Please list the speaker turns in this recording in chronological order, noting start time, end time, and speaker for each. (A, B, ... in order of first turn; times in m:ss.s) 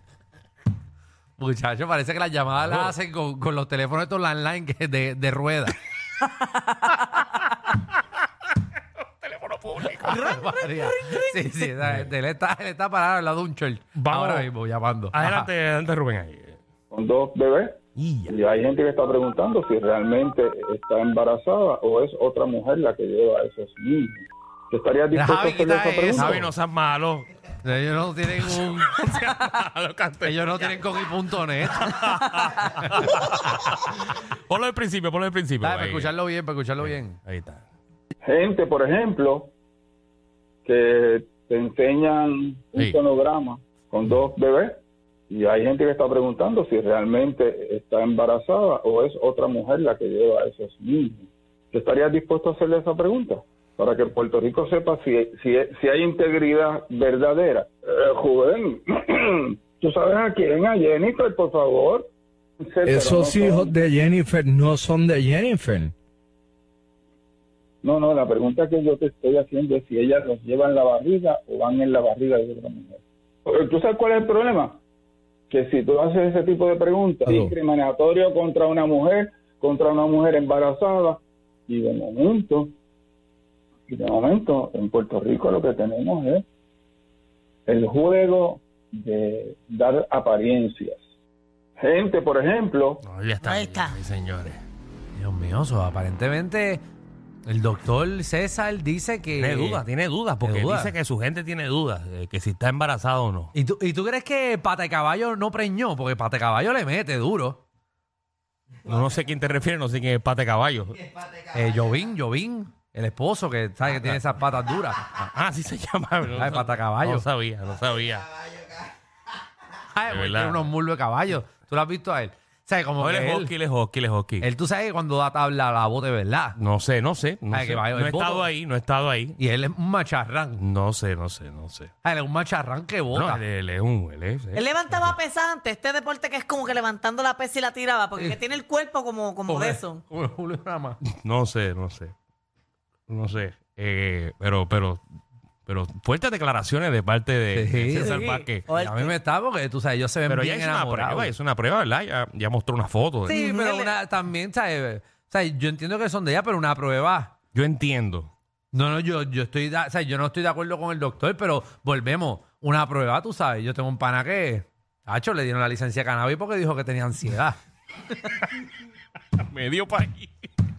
0:01.4-0:05.8 A
0:02.6-0:02.9 B
0:06.4-0:07.2 C
0:09.0-0:10.2 B
0:10.0-0:15.5 A
0:10.3-0:10.7 C
0:11.8-0:12.1 B
0:14.0-0:14.5 B
0:15.1-0:16.6 B
0:16.9-0:17.8 D
0:18.0-0:18.4 B
0:18.3-0:26.4 D
0:25.1-0:26.5 A
0:26.1-0:27.3 B
0:27.6-0:29.0 A
0:28.4-0:30.9 B
0:30.2-0:32.0 A
0:31.6-0:36.1 B
0:35.6-0:37.2 A
0:36.8-0:37.6 B
0:38.2-0:39.5 D
0:40.6-0:44.8 D
0:45.3-1:02.1 D
1:02.6-1:03.9 D
1:02.8-1:05.9 E
1:07.8-1:14.8 D
1:15.5-1:22.7 D
1:23.9-1:26.4 D
1:27.7-1:31.0 D
1:31.8-1:33.0 D
1:33.0-1:34.6 B
1:33.4-1:34.0 C
1:35.2-1:36.8 A
1:37.4-1:39.8 A
1:39.4-1:43.5 B
1:40.4-1:41.0 A
1:43.5-1:47.6 A
1:48.8-1:51.1 B
1:51.5-1:55.0 A
1:53.8-1:54.2 B
1:55.0-1:58.4 B
1:56.3-1:57.3 A
1:59.9-2:03.5 A
2:00.1-2:00.7 B
2:03.0-2:04.5 B
2:04.4-2:06.6 A
2:06.6-2:09.4 B
2:07.5-2:08.5 A
2:09.4-2:10.6 A
2:10.6-2:11.9 B
2:12.0-2:13.4 A
2:13.1-2:15.2 B
2:14.6-2:20.0 C
2:19.5-2:21.0 A
2:21.1-2:22.1 B
2:23.1-2:25.0 B
2:25.7-2:28.7 B
2:27.5-2:28.2 A
2:27.9-2:29.2 C
2:28.7-2:31.3 A
2:30.3-2:33.4 B
2:33.2-2:37.3 A
2:33.3-2:33.9 C
2:37.5-2:38.3 B
2:38.7-2:47.6 A
2:49.4-2:50.5 B